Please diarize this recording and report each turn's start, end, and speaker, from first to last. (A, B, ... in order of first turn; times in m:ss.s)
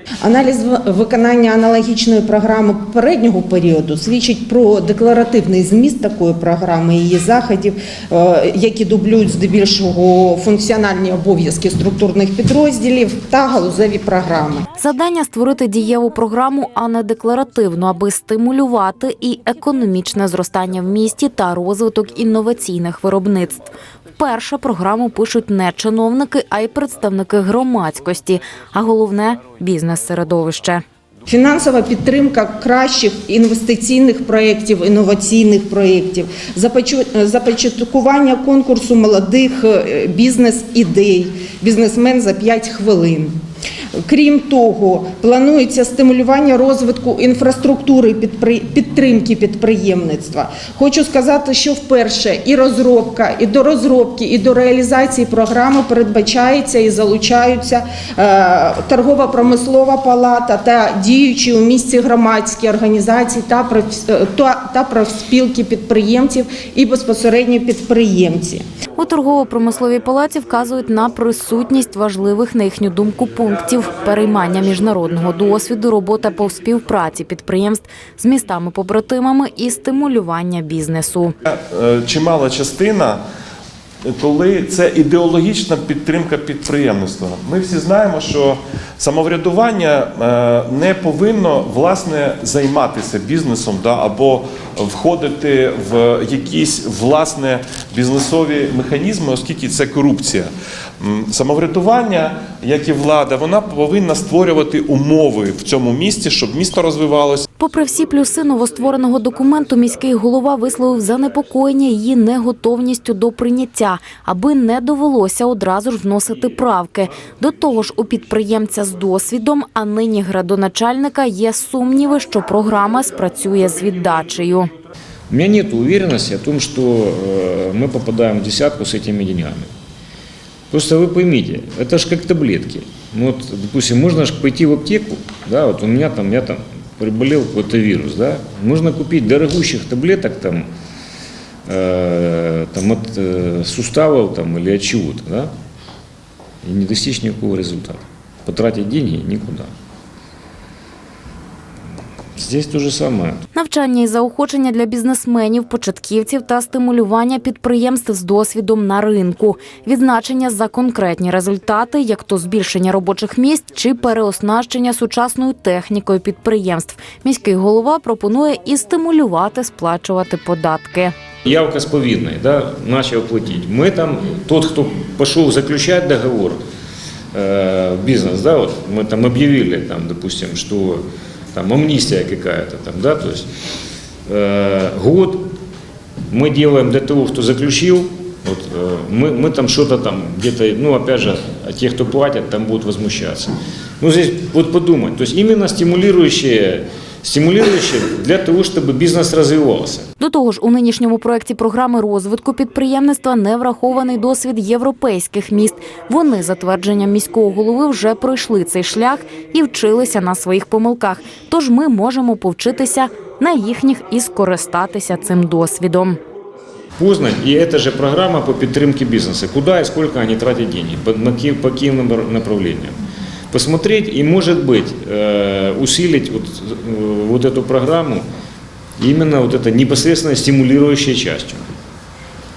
0:00.2-0:14.6 A
0:14.8-0:30.8 B
0:31.3-0:43.3 A
0:44.0-1:08.6 A
1:09.0-1:21.3 B
1:21.4-1:23.2 C
1:24.0-1:47.4 C
1:47.6-2:04.7 B
2:05.3-2:09.7 D
2:10.7-2:20.7 D
2:21.7-2:25.5 D
2:26.6-2:29.7 D
2:32.4-2:33.4 D
2:33.5-2:51.1 B
2:51.4-2:56.6 D
2:57.3-3:01.0 D
3:01.5-3:03.5 D
3:04.3-3:05.5 D
3:06.3-3:20.0 D
3:20.2-3:36.2 B
3:37.0-3:43.0 D
3:43.5-3:48.2 D
3:49.0-3:51.7 D